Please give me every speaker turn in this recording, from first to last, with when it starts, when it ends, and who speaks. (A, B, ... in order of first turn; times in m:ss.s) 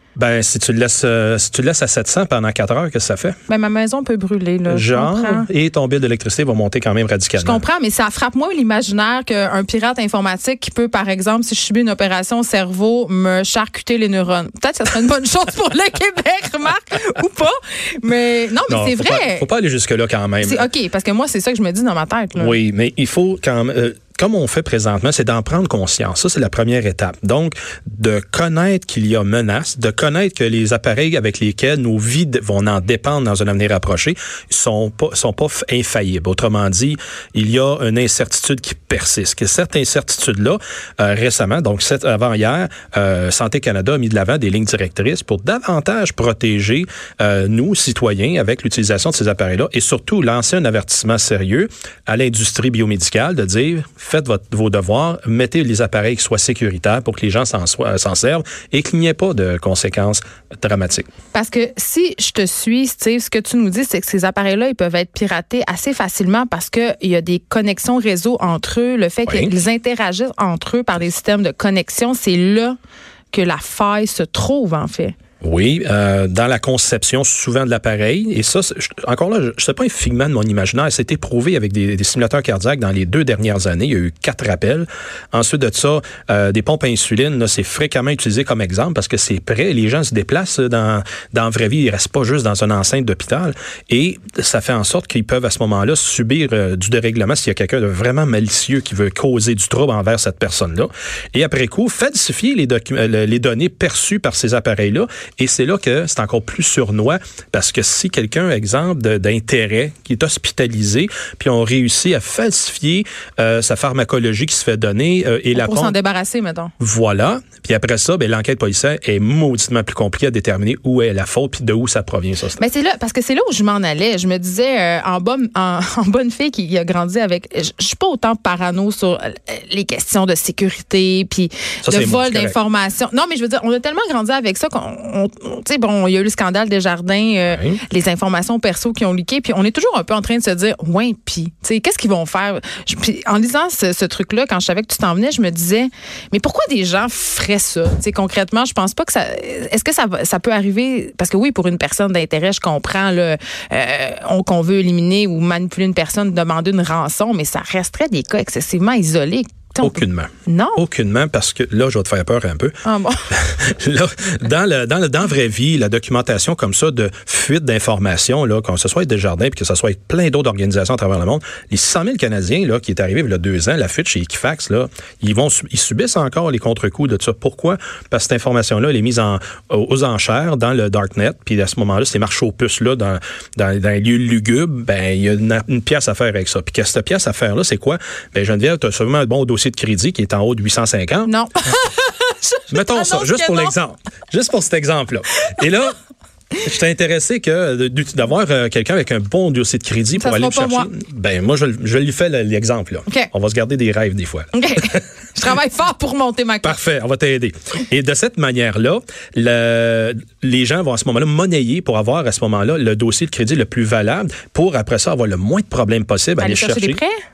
0:00.2-0:03.4 A
0:03.5-0:05.5 B
0:04.7-0:07.6 A
0:07.4-0:19.5 B
0:18.7-0:20.7 A
0:20.4-0:22.6 B
0:22.4-1:01.1 A
1:01.3-1:12.8 B
1:09.3-1:09.5 A
1:13.3-1:15.1 B
1:15.4-1:55.9 A
1:55.5-1:56.7 B
1:56.8-2:02.6 A
2:02.6-2:40.8 B
2:11.8-2:12.6 A
2:17.5-2:17.8 A
2:39.8-2:42.7 A
2:42.8-2:43.3 B
2:43.3-3:11.3 A
3:11.2-3:13.7 B
3:12.7-3:16.0 A
3:16.6-3:25.0 A
3:20.2-3:20.9 B
3:24.5-3:26.8 B
3:26.6-3:37.0 A
3:36.4-3:37.2 B